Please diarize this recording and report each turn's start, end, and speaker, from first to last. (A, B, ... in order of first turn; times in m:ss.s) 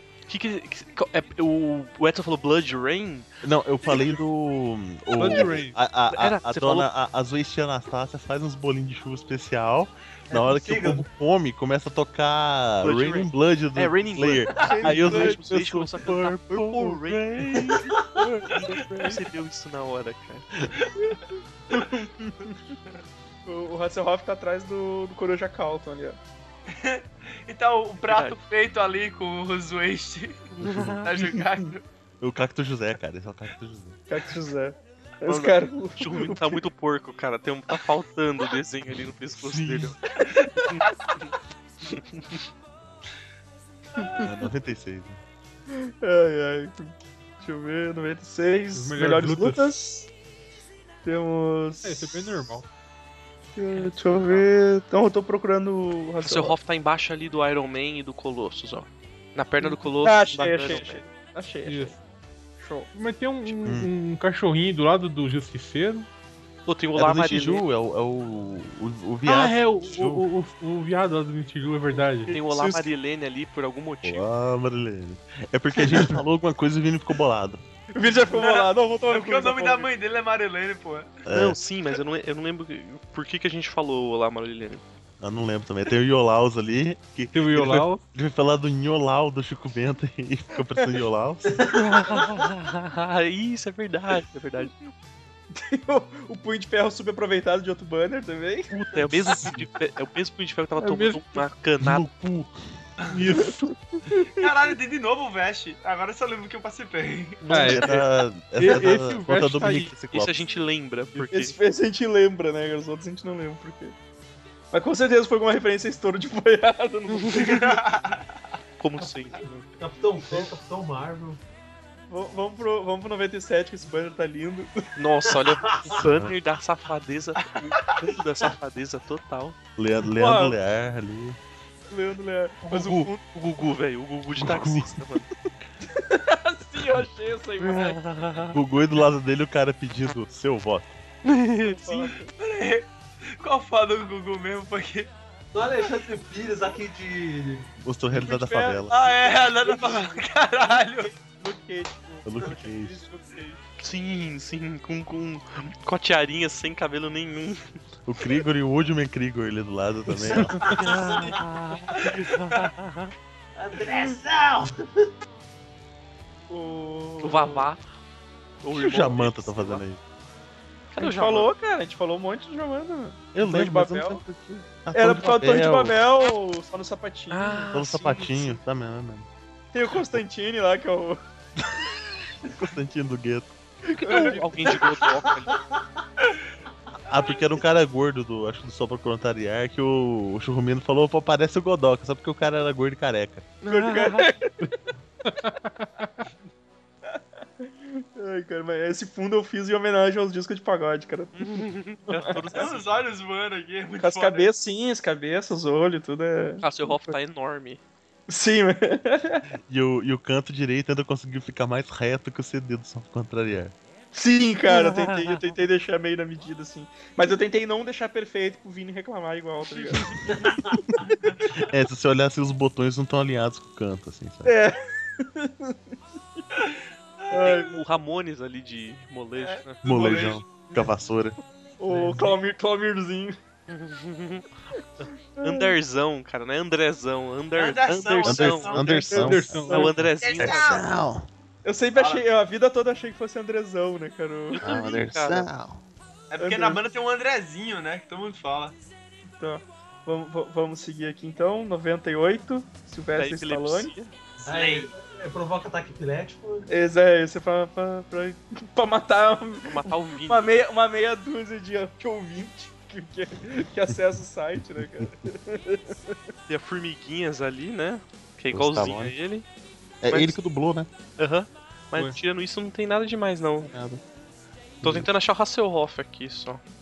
0:00.3-0:03.3 A
0:03.4-0:19.2 B
0:05.1-0:05.8 C
0:06.1-0:06.9 A
0:10.3-0:11.0 D
0:12.8-0:18.0 A
0:14.6-0:15.4 E
0:18.6-0:20.7 A
0:20.7-0:21.0 F
0:21.0-0:22.7 E
0:23.4-0:26.2 E
0:26.7-0:31.8 F
0:28.0-0:28.4 A
0:30.6-0:31.1 B
0:30.6-0:31.1 A
0:32.2-0:34.0 B
0:34.1-0:36.6 E
0:35.2-0:40.0 A
0:39.3-0:40.0 B
0:40.2-0:40.9 E
0:40.7-0:41.3 A
0:44.0-0:44.3 E
0:44.2-0:45.2 B
0:45.7-0:50.1 E
0:48.7-0:49.7 C
0:51.0-0:52.2 E
0:51.8-0:52.6 C
0:53.5-0:56.6 E
0:53.7-0:54.4 A
0:56.2-1:01.0 A
0:59.6-1:02.0 E
1:01.6-1:02.0 C
1:02.6-1:02.9 E
1:02.9-1:06.0 C
1:03.6-1:03.9 B
1:06.7-1:07.6 A
1:07.0-1:10.2 B
1:09.2-1:12.4 C
1:12.3-1:12.8 E
1:12.3-1:14.2 A
1:14.0-1:17.6 B
1:17.9-1:19.9 E
1:18.2-1:21.2 F
1:21.2-1:21.6 B
1:21.3-1:24.8 A
1:25.2-1:31.7 B
1:27.3-1:28.0 C
1:31.5-1:32.4 D
1:31.7-1:34.7 A
1:35.5-1:38.7 E
1:38.7-1:42.1 A
1:39.4-1:39.6 B
1:40.8-1:41.4 C
1:41.8-1:42.6 B
1:43.1-1:43.8 C
1:44.1-1:44.5 E
1:44.3-1:47.8 F
1:47.4-1:49.9 C
1:47.5-1:50.4 B
1:50.1-1:51.5 A
1:51.3-1:54.0 E
1:54.7-1:57.8 E
1:57.3-1:58.2 F
1:58.8-1:59.6 A
1:59.8-2:01.4 D
2:02.1-2:04.8 E
2:05.0-2:09.6 A
2:05.6-2:06.0 D
2:06.0-2:06.3 B
2:09.8-2:11.4 B
2:10.1-2:10.6 E
2:11.9-2:13.2 E
2:12.7-2:15.3 A
2:14.4-2:15.1 B
2:15.8-2:18.0 E
2:17.6-2:18.6 A
2:18.5-2:21.0 B
2:21.2-2:21.8 A
2:21.6-2:22.3 E
2:22.4-2:25.1 F
2:25.5-2:27.7 D
2:27.8-2:29.0 B
2:28.1-2:33.6 E
2:28.9-2:31.1 F
2:32.2-2:33.0 B
2:33.8-2:37.6 A
2:38.0-2:40.8 B
2:40.2-2:41.4 D
2:40.6-2:43.1 A
2:42.1-2:42.5 F
2:43.6-2:45.0 D
2:46.5-2:47.7 E
2:47.2-2:47.8 A
2:48.6-2:49.8 A
2:48.7-2:50.0 B
2:50.9-2:51.5 A
2:51.0-2:54.2 E
2:53.3-2:56.0 B
2:54.9-2:57.7 E
2:57.3-2:58.6 A
2:57.7-2:59.3 B
2:59.7-3:01.2 E
3:02.6-3:03.5 B
3:03.9-3:04.7 E
3:04.0-3:05.6 A
3:05.5-3:05.8 D
3:07.1-3:13.5 B
3:13.6-3:14.3 A
3:13.6-3:14.5 E
3:15.2-3:16.2 C
3:17.1-3:22.6 E
3:21.3-3:23.0 A
3:22.5-3:24.5 F
3:24.0-3:27.2 E
3:26.6-3:27.8 A
3:28.3-3:29.4 E
3:29.7-3:33.7 B
3:34.1-3:40.3 E
3:34.7-3:35.5 A
3:39.6-3:40.5 A
3:40.2-3:41.0 D
3:41.5-3:44.5 B
3:44.4-3:45.8 E
3:47.3-3:47.8 E
3:47.3-3:49.8 A
3:49.4-3:50.9 E
3:49.8-3:51.4 B
3:50.0-3:50.3 F
3:51.8-3:53.4 E
3:53.7-3:54.4 A
3:55.4-3:55.7 E
3:55.4-4:00.6 A
3:57.5-3:59.0 F
3:58.2-3:59.7 B
3:59.1-4:00.4 E
3:59.1-4:00.2 C
4:00.3-4:00.8 F
4:00.4-4:01.3 B
4:01.6-4:04.6 E
4:01.9-4:02.2 F
4:04.6-4:05.5 A
4:04.6-4:05.8 B
4:06.3-4:08.8 F
4:06.4-4:06.8 E
4:09.4-4:13.9 E
4:13.1-4:14.1 A
4:14.4-4:14.9 F
4:14.5-4:16.7 D
4:16.7-4:26.2 E
4:19.6-4:20.6 A
4:24.8-4:25.1 B
4:26.5-4:29.4 A
4:28.5-4:29.2 B
4:30.0-4:30.9 B
4:30.1-4:30.3 A
4:31.2-4:33.7 A
4:33.6-4:34.0 B
4:34.8-4:35.1 B
4:34.8-4:36.6 A